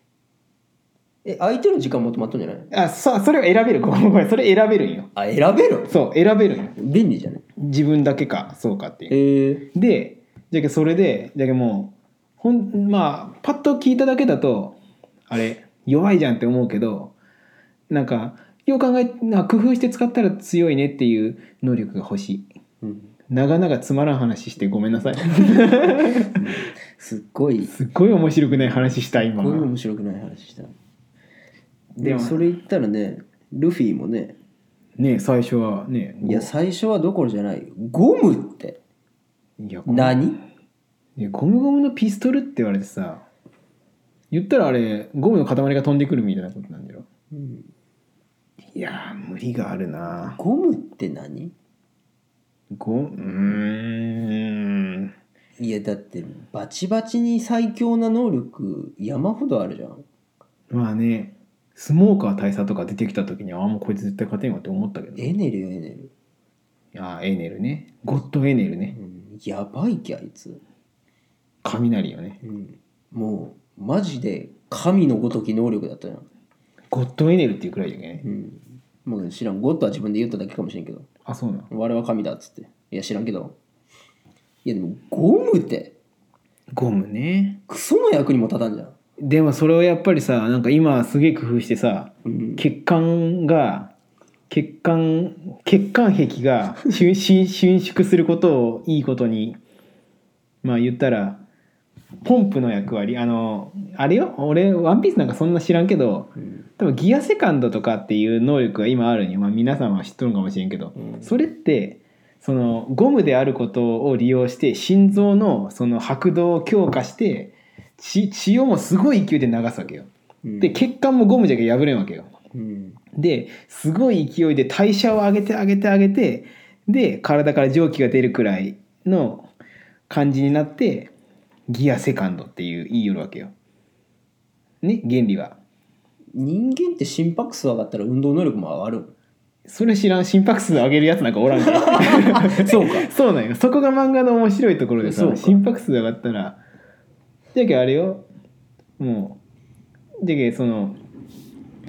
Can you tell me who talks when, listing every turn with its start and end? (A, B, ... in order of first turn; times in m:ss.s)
0:01.2-0:02.7 A
0:02.7-0:05.1 B
0:05.2-0:05.9 A
0:05.9-0:06.8 B
0:06.8-0:07.4 A
0:07.6-0:09.1 B
0:09.1-0:09.7 A
0:09.7-0:14.8 B
0:15.3-0:17.1 B
0:17.9-0:22.4 B
0:22.8-0:23.1 A
0:23.3-0:26.4 B
0:26.2-0:27.7 A
0:27.7-0:29.7 B
0:28.5-0:30.7 A
0:32.0-0:32.5 B
0:32.0-0:34.3 A
0:35.0-0:36.5 B
0:36.2-0:38.8 A
0:39.6-0:40.3 B
0:39.9-0:40.4 A
0:41.2-0:43.2 B
0:44.3-0:47.0 B
0:47.3-0:47.7 A
0:48.7-0:50.4 B
0:50.3-0:51.5 A
0:52.7-0:55.1 B
0:55.6-1:00.0 A
1:00.7-1:05.3 B
1:05.2-1:06.1 A
1:06.9-1:08.9 B
1:08.9-1:10.6 A
1:11.6-1:12.4 B
1:12.4-1:16.3 A
1:16.9-1:18.2 B
1:18.2-1:21.1 A
1:21.2-1:21.7 B
1:21.7-1:23.5 A
1:24.6-1:25.9 A
1:26.7-1:27.6 B
1:27.7-1:28.9 A
1:29.2-1:33.9 B
1:32.2-1:32.6 A
1:34.5-1:39.6 B
1:40.6-1:41.4 B
1:42.2-2:00.1 B
1:51.0-1:51.3 A
2:00.4-2:00.8 A
2:00.6-2:02.3 B
2:02.5-2:03.0 A
2:03.2-2:09.5 B
2:10.1-2:11.1 B
2:11.7-2:13.5 B
2:14.8-2:15.6 B
2:16.3-2:19.1 A
2:19.7-2:26.6 B
2:21.8-2:23.1 A
2:25.0-2:25.6 A
2:27.5-2:28.2 B
2:29.0-2:29.4 B
2:30.2-2:31.0 B